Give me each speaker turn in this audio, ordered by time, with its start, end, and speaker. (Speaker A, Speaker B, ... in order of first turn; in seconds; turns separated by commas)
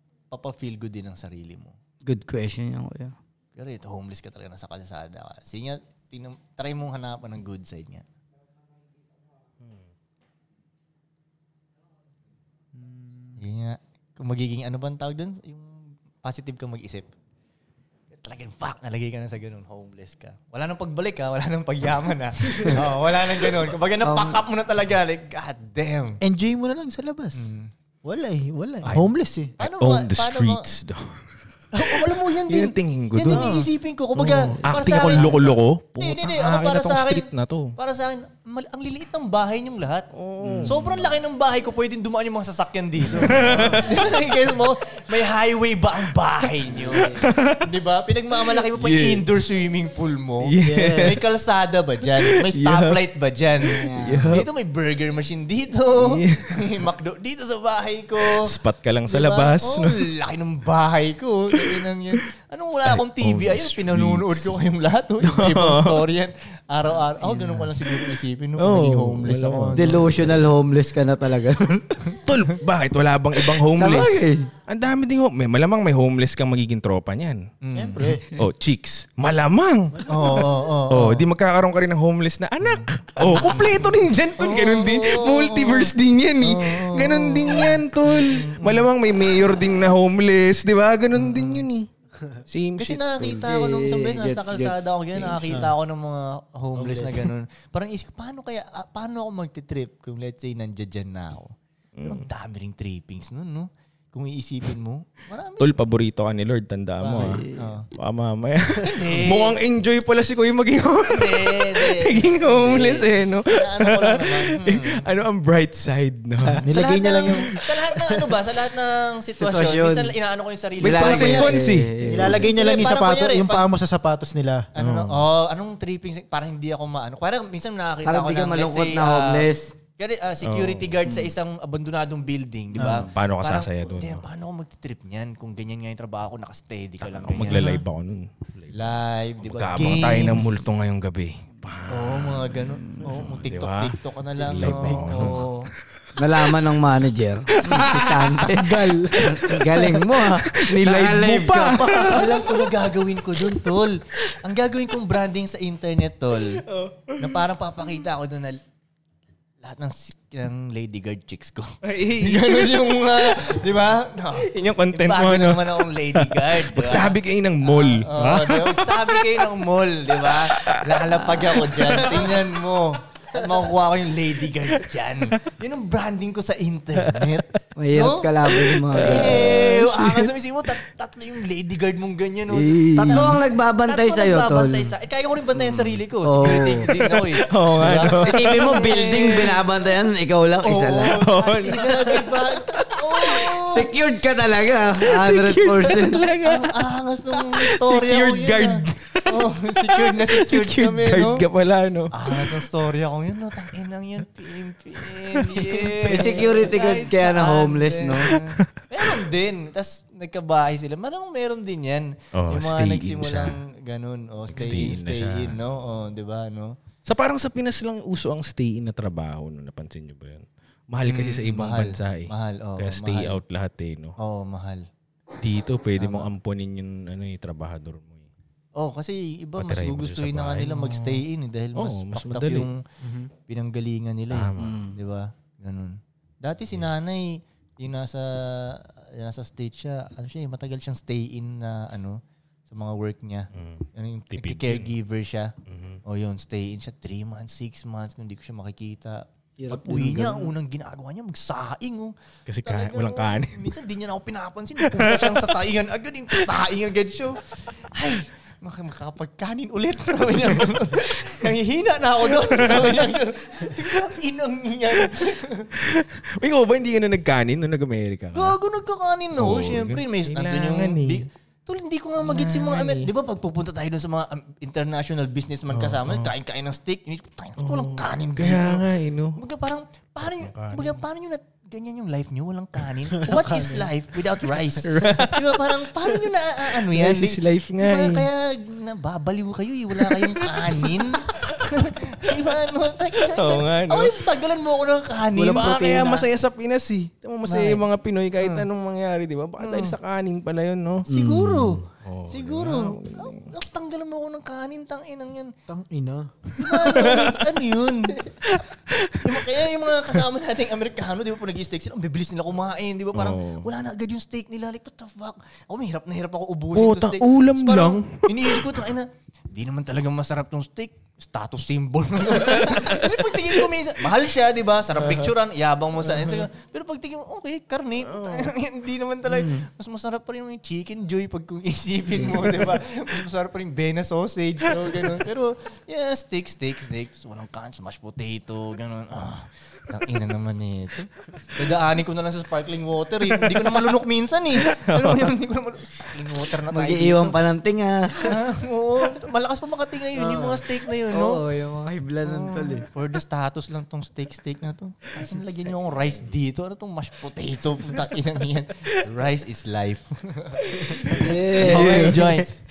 Speaker A: 0.3-1.8, Speaker B: 2.0-3.1, Speaker A: 3.6-8.1, Speaker C: 12.8-13.3, Speaker A: 13.4-17.1, Speaker A: 18.1-26.2, Speaker B: 24.0-24.4, Speaker C: 26.2-27.5, Speaker A: 27.3-27.7, Speaker C: 28.0-29.6, Speaker A: 29.6-30.7, Speaker D: 29.6-31.2, Speaker A: 31.7-40.1, Speaker D: 31.8-33.6, Speaker D: 34.2-37.7, Speaker B: 34.6-35.3, Speaker D: 40.1-41.1, Speaker B: 40.4-40.7, Speaker A: 40.6-58.5, Speaker D: 43.1-44.1, Speaker C: 43.2-44.0, Speaker B: 43.5-44.1, Speaker B: 46.7-47.3, Speaker D: 46.9-47.7, Speaker D: 48.5-49.2, Speaker D: 50.4-51.2, Speaker C: 50.6-51.2, Speaker D: 52.2-53.0, Speaker B: 53.6-54.4, Speaker D: 53.9-54.5, Speaker D: 56.0-56.8, Speaker D: 58.3-60.0, Speaker A: 59.1-70.4, Speaker D: 62.9-64.5, Speaker D: 65.2-66.1, Speaker D: 67.5-70.4, Speaker B: 69.7-72.0, Speaker D: 72.2-77.5, Speaker B: 73.7-74.5, Speaker A: 77.6-78.0, Speaker C: 77.8-78.4, Speaker D: 78.4-91.9, Speaker C: 80.0-80.5, Speaker A: 80.1-81.3, Speaker A: 82.6-88.9, Speaker A: 91.1-91.6, Speaker D: 92.5-93.1, Speaker A: 92.8-105.7, Speaker B: 93.2-95.5, Speaker C: 96.8-97.3, Speaker D: 102.0-102.3, Speaker D: 105.6-116.6, Speaker A: 107.0-107.9, Speaker B: 107.1-107.7, Speaker A: 108.8-109.6, Speaker A: 111.1-115.1, Speaker B: 112.6-113.0, Speaker C: 116.6-117.6, Speaker A: 116.7-121.6, Speaker D: 117.3-118.3, Speaker B: 119.4-120.2, Speaker B: 120.8-122.7, Speaker D: 120.8-122.2, Speaker C: 122.1-124.7, Speaker A: 122.4-123.7, Speaker A: 124.8-129.5, Speaker D: 124.8-125.2, Speaker B: 128.0-129.8, Speaker A: 130.0-137.8, Speaker D: 130.4-131.0, Speaker B: 131.1-131.3, Speaker B: 132.8-133.1, Speaker D: 132.9-134.2, Speaker D: 137.0-145.5, Speaker B: 137.5-137.8, Speaker A: 138.7-140.6, Speaker A: 141.9-145.7, Speaker B: 144.6-145.4, Speaker B: 146.2-152.4, Speaker D: 147.6-152.7, Speaker A: 151.6-156.6, Speaker D: 153.4-154.3, Speaker D: 156.7-157.4, Speaker A: 157.2-158.6, Speaker A: 159.6-189.6, Speaker D: 161.8-163.8, Speaker D: 164.4-172.5, Speaker D: 177.0-179.8, Speaker B: 177.8-180.1, Speaker B: 182.6-184.9, Speaker D: 182.6-183.4, Speaker B: 186.2-186.9, Speaker D: 186.4-188.9, Speaker B: 187.8-191.2, Speaker A: 190.6-193.9, Speaker D: 191.0-193.4, Speaker B: 193.6-196.3, Speaker D: 195.0-196.8, Speaker A: 196.4-201.4, Speaker D: 197.3-202.7, Speaker A: 202.1-216.8, Speaker B: 205.9-208.4, Speaker D: 212.3-213.6, Speaker D: 214.5-215.6, Speaker D: 217.1-224.2, Speaker A: 221.0-223.4, Speaker A: 224.2-224.9, Speaker D: 225.4-228.3, Speaker A: 226.0-226.3, Speaker A: 228.8-232.8, Speaker D: 229.6-231.2, Speaker D: 231.8-232.7, Speaker A: 233.4-265.7, Speaker D: 234.3-234.8, Speaker B: 234.6-235.0, Speaker D: 243.5-245.0, Speaker D: 245.7-246.0, Speaker B: 249.6-250.5, Speaker D: 252.5-253.8, Speaker D: 254.8-255.6, Speaker D: 262.4-263.2, Speaker D: 265.8-268.6, Speaker A: 268.3-296.3, Speaker D: 269.4-271.2, Speaker D: 272.2-273.1, Speaker D: 275.7-276.3, Speaker D: 277.6-279.4, Speaker D: 280.2-281.0, Speaker D: 284.8-285.7, Speaker D: 286.7-288.3, Speaker D: 290.1-291.6, Speaker D: 293.3-294.2, Speaker C: 295.4-296.1, Speaker D: 295.5-301.1, Speaker A: 297.4-297.9, Speaker A: 298.4-298.7, Speaker A: 299.6-300.0, Speaker B: 301.1-301.8, Speaker A: 301.1-305.5, Speaker D: 302.0-303.5, Speaker C: 305.7-307.1, Speaker A: 306.6-308.4, Speaker D: 306.7-307.4, Speaker D: 308.5-309.4, Speaker A: 309.2-347.4, Speaker D: 313.1-313.7, Speaker D: 316.8-318.9, Speaker D: 322.4-323.5, Speaker D: 325.0-325.3, Speaker D: 326.2-326.4, Speaker D: 328.1-328.5, Speaker B: 329.3-329.7, Speaker D: 334.8-335.2, Speaker D: 344.7-345.3, Speaker B: 346.7-348.4, Speaker A: 348.2-351.4, Speaker B: 350.2-352.9, Speaker A: 352.2-362.6, Speaker D: 360.7-362.4, Speaker B: 361.1-362.3